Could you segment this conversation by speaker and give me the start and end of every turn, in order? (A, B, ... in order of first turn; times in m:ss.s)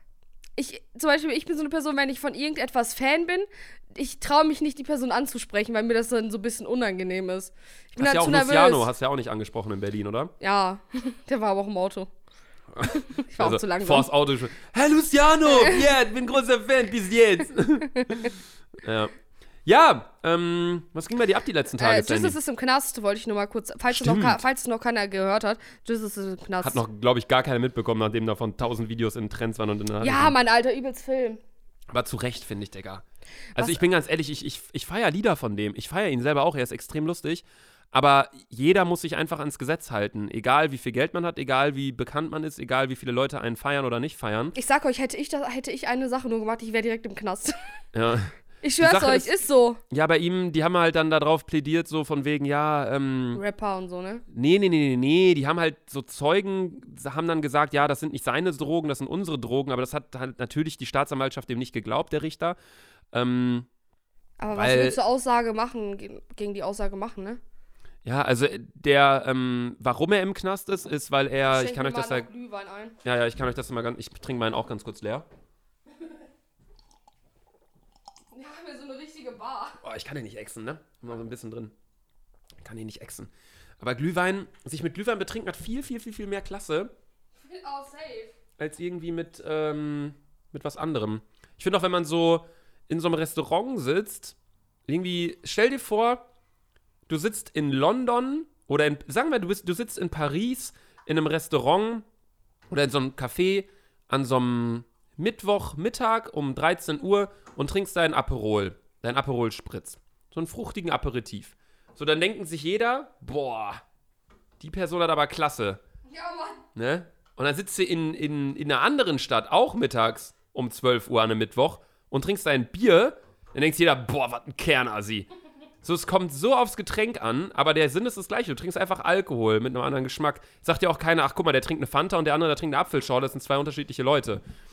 0:00.6-0:08.9 A
0:08.0-0:10.3 B
0:10.4-0:12.1 A
0:12.8-0:19.1 B
0:12.8-0:14.1 A
0:15.5-0:15.8 A
0:18.0-0:18.3 A
0:19.7-0:22.4 B
0:21.8-0:26.8 A
0:23.9-0:24.4 B
0:26.6-0:30.4 B
0:30.0-0:31.4 A
0:31.9-0:33.0 B
0:33.6-0:33.8 A
0:33.6-0:44.6 B
0:44.6-0:47.6 A
0:47.9-0:49.3 B
0:48.6-0:49.8 A
0:49.9-0:53.4 B
0:53.3-0:54.2 A
0:54.3-1:02.6 B
1:03.1-1:03.7 B
1:04.4-1:07.4 A
1:04.5-1:05.0 B
1:08.0-1:12.3 B
1:11.5-1:13.0 A
1:13.0-1:15.3 B
1:18.3-1:19.8 A
1:19.8-1:21.7 B
1:22.6-1:26.9 B
1:27.4-1:28.3 A
1:28.6-1:34.4 B
1:34.9-1:36.2 B
1:37.1-1:42.0 B
1:42.7-1:53.8 B
1:54.6-1:55.8 B
1:56.1-1:56.6 A
1:56.8-2:05.3 B
2:05.8-2:14.4 B